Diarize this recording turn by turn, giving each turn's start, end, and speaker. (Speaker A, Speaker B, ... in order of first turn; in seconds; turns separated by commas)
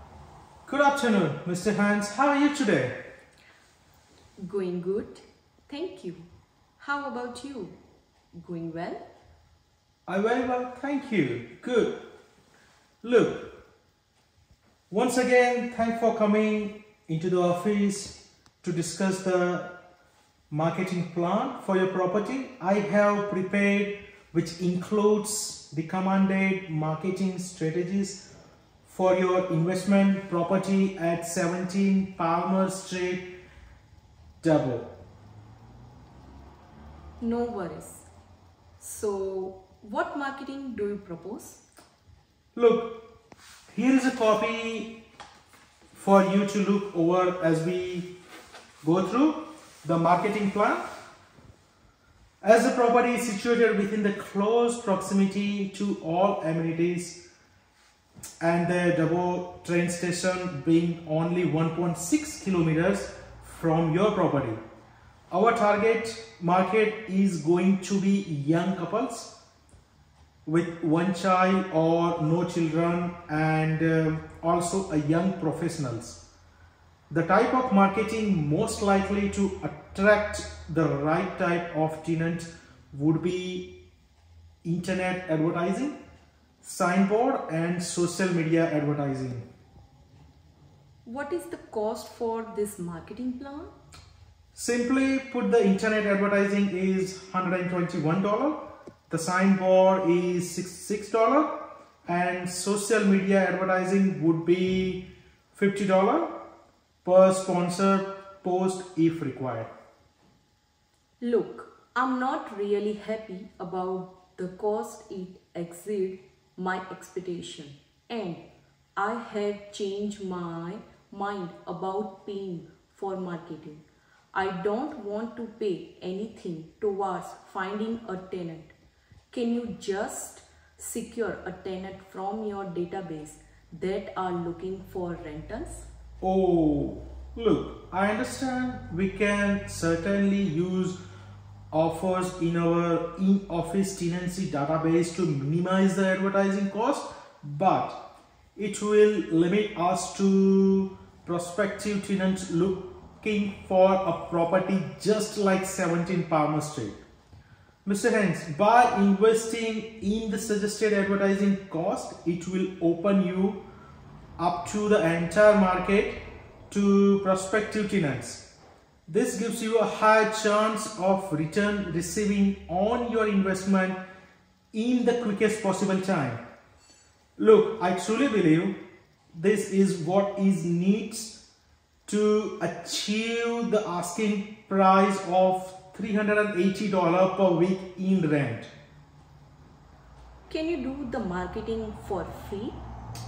Speaker A: 0.7-3.0, Speaker B: 4.4-6.3, Speaker B: 6.8-7.8, Speaker B: 8.3-9.0, Speaker A: 10.1-12.0, Speaker A: 13.0-13.6, Speaker A: 14.9-19.7, Speaker A: 20.5-28.3, Speaker A: 28.8-33.4, Speaker A: 34.4-34.9, Speaker B: 37.2-38.1, Speaker B: 38.8-41.6, Speaker A: 42.5-43.1, Speaker A: 43.7-45.0, Speaker A: 45.9-48.1, Speaker A: 48.8-50.8, Speaker A: 52.4-57.2, Speaker A: 58.4-64.6, Speaker A: 65.3-69.3, Speaker A: 70.4-76.2, Speaker A: 77.1-83.7, Speaker A: 84.6-86.0, Speaker A: 86.6-89.5, Speaker B: 91.0-93.7, Speaker A: 94.5-106.3, Speaker A: 107.0-109.7, Speaker B: 111.2-118.4, Speaker B: 119.0-128.7, Speaker B: 129.3-135.9, Speaker A: 136.2-140.9, Speaker A: 141.7-148.0, Speaker A: 148.5-157.0, Speaker A: 157.8-163.6, Speaker A: 164.4-168.4, Speaker A: 169.1-174.0, Speaker A: 174.7-176.4, Speaker A: 177.4-178.8, Speaker A: 179.3-181.4, Speaker A: 182.1-188.7, Speaker B: 190.5-192.8